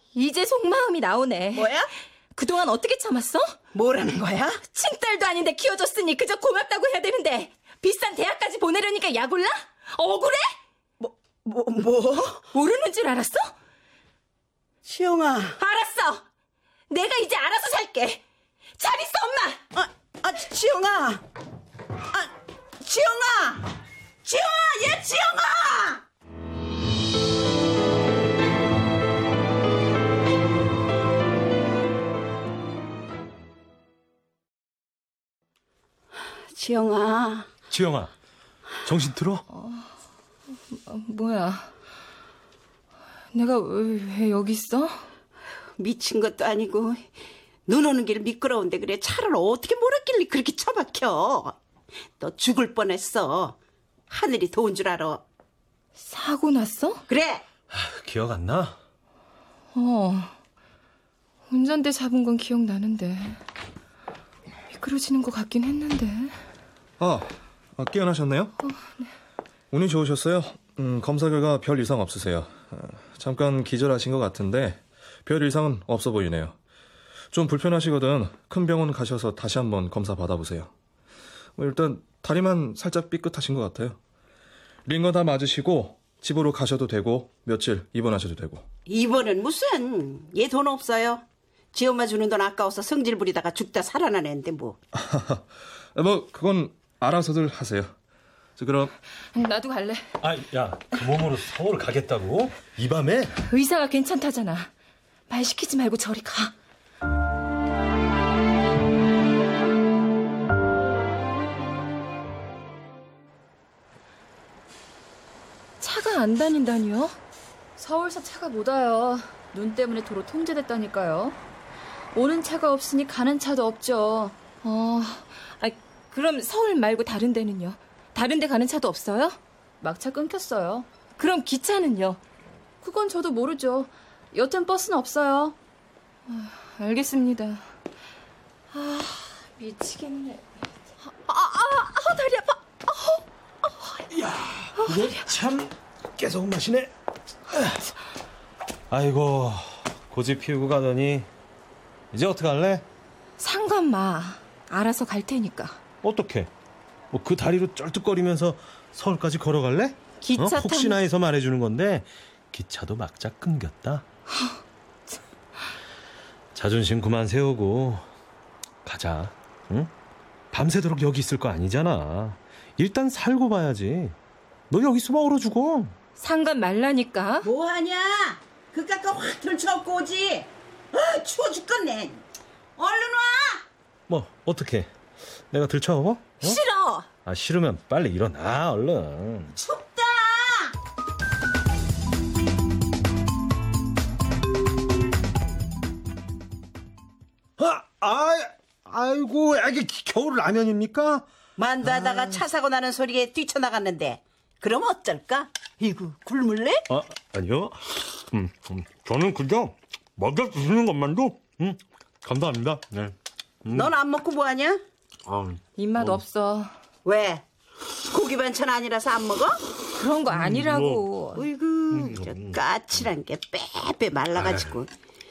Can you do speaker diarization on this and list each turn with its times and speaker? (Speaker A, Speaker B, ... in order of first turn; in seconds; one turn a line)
Speaker A: 0.1-1.7
Speaker B: 1.5-1.9
Speaker A: 2.4-3.5
Speaker B: 3.7-4.6
Speaker A: 4.7-10.5
Speaker B: 11.0-12.4
Speaker A: 12.5-13.5
Speaker B: 14.8-15.6
Speaker A: 15.6-16.2
Speaker A: 16.9-18.2
Speaker A: 18.8-19.6
Speaker B: 19.7-21.2
Speaker B: 22.1-23.7
Speaker B: 24.2-26.0
Speaker B: 36.5-37.5
Speaker C: 37.7-38.1
Speaker C: 38.8-39.4
Speaker A: 39.5-39.9
Speaker A: 40.7-41.7
Speaker A: 43.3-45.0
Speaker B: 45.8-47.1
Speaker B: 47.7-51.5
Speaker B: 52.2-53.5
Speaker B: 54.1-55.2
Speaker A: 56.0-57.0
Speaker B: 57.1-57.4
Speaker C: 57.7-58.8
Speaker A: 59.7-60.3
Speaker A: 61.5-63.4
Speaker A: 64.7-66.3
Speaker D: 67.0-68.5
Speaker D: 69.7-76.5
Speaker D: 77.3-80.7
Speaker D: 81.6-84.0
Speaker D: 84.8-88.7
Speaker B: 88.9-91.2
Speaker B: 91.7-94.8
Speaker D: 94.9-97.9
Speaker D: 98.6-98.9
Speaker A: 99.3-100.0
Speaker C: 100.2-103.4
Speaker A: 103.5-104.7
Speaker A: 105.3-106.5
Speaker A: 115.8-117.2
Speaker E: 117.8-121.4
Speaker E: 122.1-124.4
Speaker A: 124.6-129.4
Speaker E: 129.8-130.9
Speaker A: 131.2-132.2
Speaker E: 132.8-135.6
Speaker A: 136.3-137.6
Speaker A: 138.7-140.4
Speaker A: 141.2-143.2
Speaker C: 144.1-146.9
Speaker A: 144.8-145.2
Speaker C: 147.5-147.8
Speaker C: 148.9-151.3
Speaker C: 152.1-152.9
Speaker A: 153.4-155.8
Speaker C: 156.0-156.5
Speaker C: 157.1-164.1
Speaker A: 160.2-161.0
Speaker A: 164.3-164.6
Speaker C: 166.5-168.0
Speaker C: 168.8-169.9
Speaker C: 170.5-174.2
Speaker C: 174.7-175.9
Speaker A: 176.2-177.5
Speaker B: 177.4-182.2
Speaker B: 182.8-183.6
Speaker C: 184.1-184.9
Speaker C: 185.5-186.6
Speaker A: 186.4-187.1
Speaker C: 187.2-189.6
Speaker B: 189.6-190.7
Speaker C: 197.6-201.2
Speaker B: 201.6-206.8
Speaker C: 201.8-202.3
Speaker C: 206.9-213.1
Speaker C: 213.6-213.9
Speaker B: 213.7-214.8
Speaker C: 215.2-216.2
Speaker A: 215.8-216.7
Speaker B: 217.0-217.4
Speaker B: 218.1-219.6
Speaker A: 219.9-221.4
Speaker C: 220.3-221.1
Speaker B: 221.3-224.9
Speaker C: 221.9-222.6
Speaker C: 224.4-224.7